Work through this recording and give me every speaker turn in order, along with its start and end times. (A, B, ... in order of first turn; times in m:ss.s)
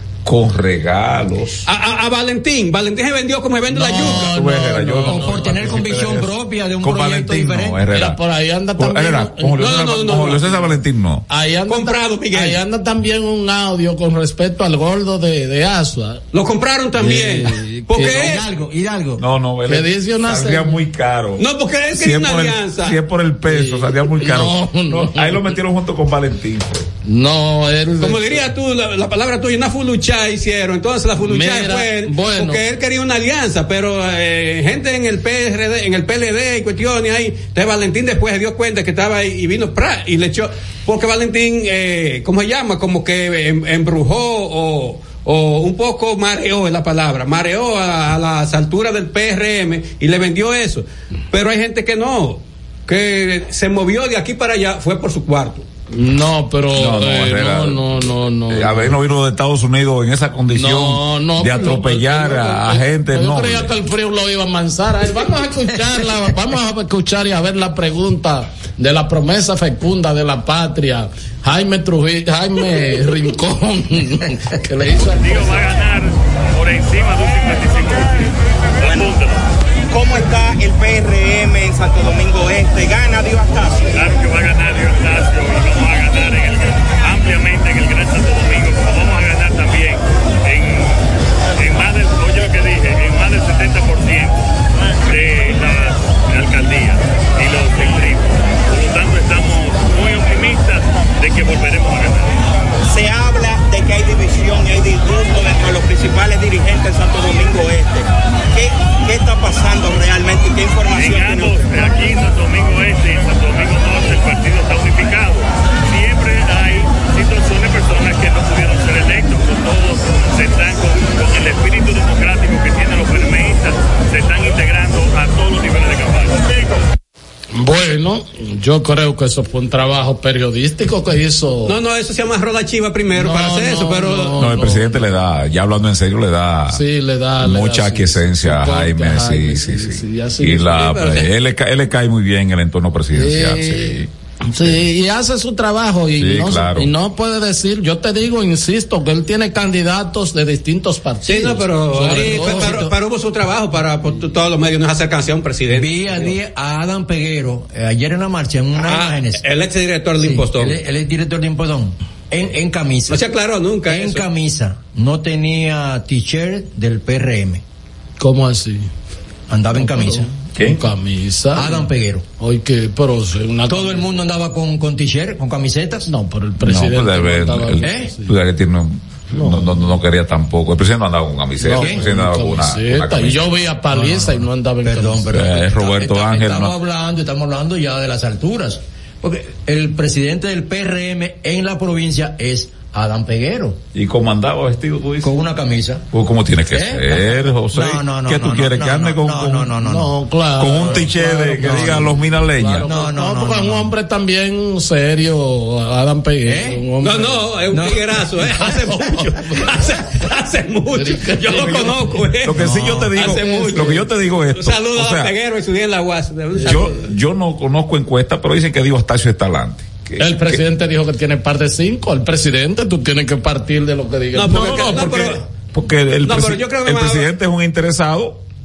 0:00.2-0:01.6 A
0:01.6-0:04.2 B
0:03.7-0:05.2 C
0:03.8-0:08.2 A
0:05.0-0:07.8 D
0:07.9-0:09.9 C
0:08.8-0:11.2 A
0:09.6-0:10.5 B
0:11.3-0:16.2 C
0:11.7-0:12.6 B
0:16.3-0:18.4 B
0:17.0-0:18.4 C
0:18.1-0:19.2 D
0:19.2-0:26.9 A
0:19.7-0:20.8 C
0:21.4-0:23.0 B
0:23.5-0:25.5 C
0:27.0-0:28.4 C
0:28.0-0:55.6 B
0:31.2-0:32.6 C
0:55.9-0:59.0 C
0:56.7-0:57.8 A
0:58.5-1:03.7 A
1:00.5-1:15.5 C
1:15.1-1:18.2 E
1:18.8-1:19.4 E
1:18.8-1:19.1 F
1:19.9-1:23.9 F
1:23.9-1:30.9 E
1:31.6-1:42.4 E
1:42.8-1:51.7 F
1:50.9-2:06.8 E
2:07.5-2:11.7 C
2:11.6-2:14.4 B
2:13.2-2:15.0 C
2:14.4-2:16.8 A
2:16.7-2:20.9 C
2:17.4-2:24.1 A
2:20.7-2:21.3 B
2:23.1-2:32.7 C
2:26.2-2:26.9 A
2:31.2-2:36.4 B
2:31.9-2:32.9 D
2:35.7-2:39.4 D
2:38.8-2:40.8 B
2:40.2-2:43.2 D
2:43.1-2:44.3 B
2:43.8-2:47.6 D
2:48.2-2:48.9 C
2:49.5-2:50.3 D
2:49.7-2:54.0 C
2:50.6-2:50.8 A
2:51.5-2:52.2 D
2:53.7-2:56.1 D
2:56.0-2:58.3 C
2:56.6-3:03.6 A
2:57.8-2:58.1 D
2:59.3-2:59.9 C
3:01.6-3:05.5 C
3:01.7-3:02.0 D
3:03.9-3:13.8 D
3:05.3-3:06.8 A
3:13.9-3:15.3 A
3:15.2-3:16.0 D
3:16.1-3:19.7 A
3:16.7-3:20.1 D
3:19.8-3:27.4 C
3:20.6-3:22.9 A
3:21.6-3:22.1 D
3:22.9-3:23.9 D
3:26.4-3:26.8 D
3:27.0-3:37.0 B
3:27.7-3:28.0 D
3:28.6-3:29.3 C
3:30.9-3:32.0 C
3:31.5-3:35.3 A
3:32.5-3:33.1 D
3:33.3-3:34.0 C
3:36.6-3:40.6 A
3:40.2-3:45.3 C
3:44.3-3:45.4 B
3:44.5-3:48.4 A
3:46.2-3:47.3 B